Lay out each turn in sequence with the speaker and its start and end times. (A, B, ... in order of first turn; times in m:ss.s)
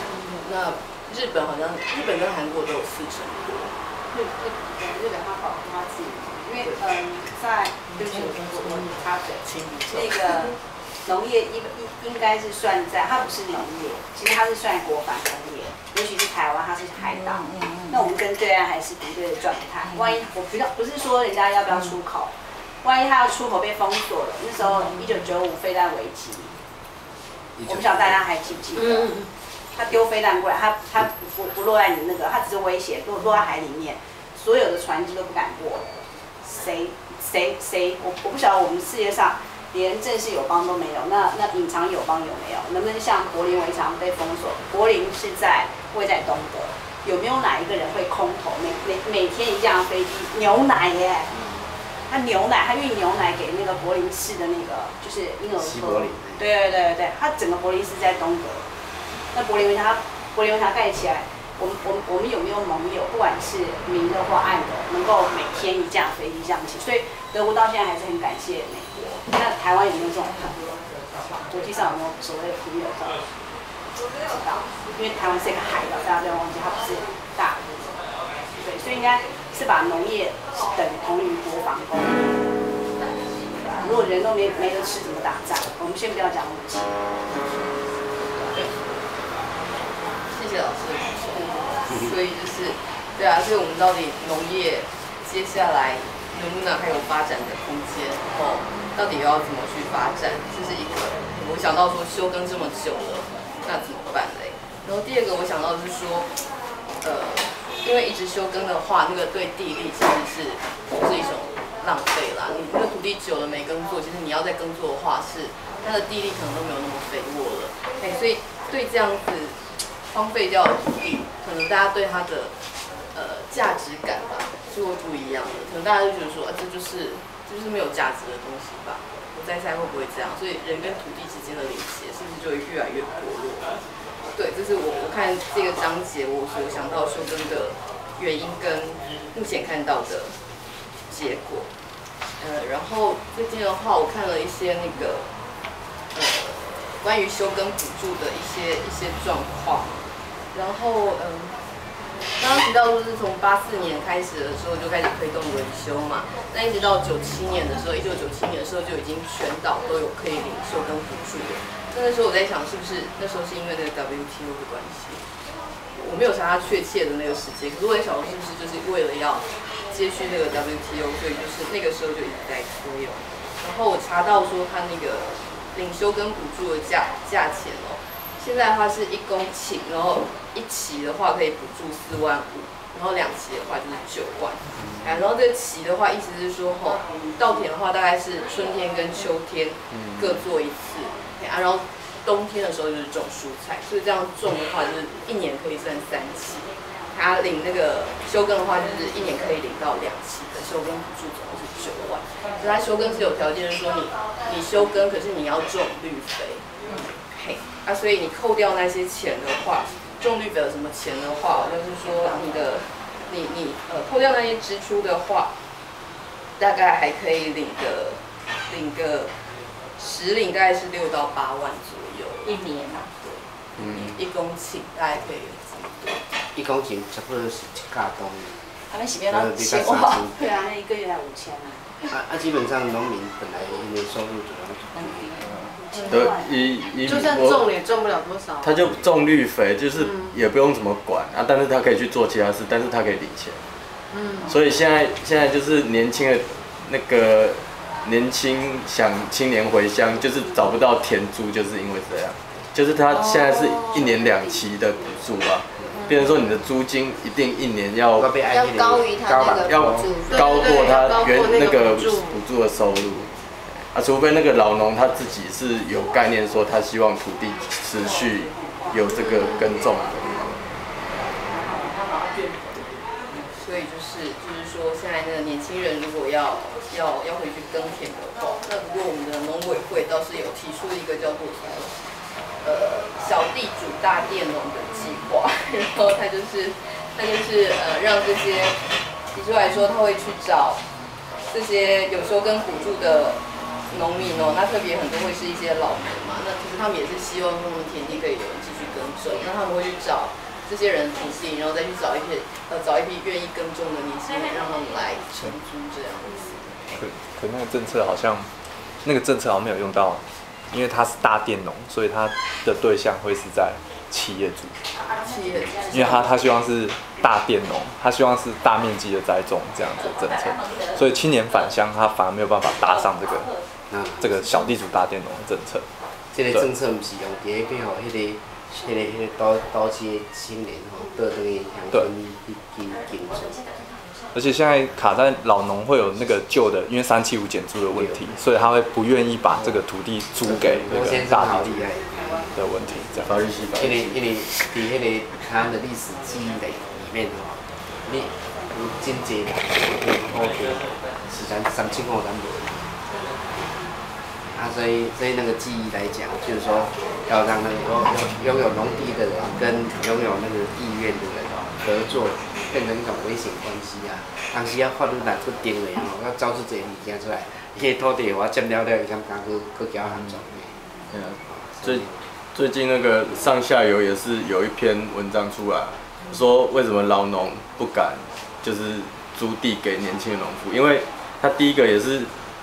0:00.4-0:03.7 A
0:04.1-0:26.6 B
0:08.6-0:08.9 C
0:17.0-0:18.1 D
0:19.8-0:20.3 D
0:24.7-0:25.1 D
0:27.6-0:29.1 E
0:27.6-0:29.2 B
0:29.7-0:51.3 B
0:52.1-0:58.7 B
0:55.6-0:56.5 E
0:59.3-1:13.2 B
1:14.2-1:18.0 B
1:18.6-1:22.5 B
1:23.6-1:27.0 B
1:30.3-1:46.3 A
1:47.0-2:02.5 A
2:03.1-2:13.8 A
2:14.3-2:20.4 A
2:21.1-2:21.7 A
2:22.4-2:25.3 A
2:26.1-2:31.6 A
2:32.4-2:45.2 A
2:45.9-3:26.6 A
3:27.3-3:35.5 A
3:36.6-3:39.3 A
3:40.0-3:42.6 A
3:42.4-3:43.1 D
3:43.2-3:46.2 A
3:43.8-3:44.1 E
3:46.5-3:48.6 E
3:48.9-3:50.9 D
3:49.2-3:50.4 E
3:50.5-3:51.9 B
3:52.1-3:55.7 E
3:54.9-3:55.4 D
3:55.8-3:56.8 B
3:55.9-3:56.3 C
3:56.1-3:57.7 F
3:57.0-3:59.0 C
3:58.6-4:03.6 F
4:00.0-4:00.4 C
4:04.1-4:04.5 C
4:04.5-4:18.4 F
4:13.5-4:13.9 C
4:18.1-4:20.2 E
4:18.5-4:22.4 C
4:19.7-4:30.6 F
4:31.5-4:32.8 A
4:33.5-4:42.0 A
4:42.6-4:48.8 A
4:49.3-4:50.8 A
4:51.5-5:06.8 A
5:06.9-5:14.7 G
5:15.1-5:16.5 D
5:15.2-5:16.4 A
5:15.9-5:23.5 G
5:19.9-5:21.8 D
5:22.8-5:23.6 D
5:23.9-5:24.7 E
5:24.2-5:25.8 G
5:26.3-5:33.6 E
5:32.9-5:34.3 D
5:34.3-5:41.9 G
5:37.9-5:38.4 E
5:39.4-5:39.8 E
5:40.4-5:42.5 E
5:42.5-5:43.4 G
5:43.3-5:44.2 F
5:43.7-5:52.9 E
5:54.5-6:10.9 E
6:11.1-6:22.3 F
6:11.4-6:12.2 E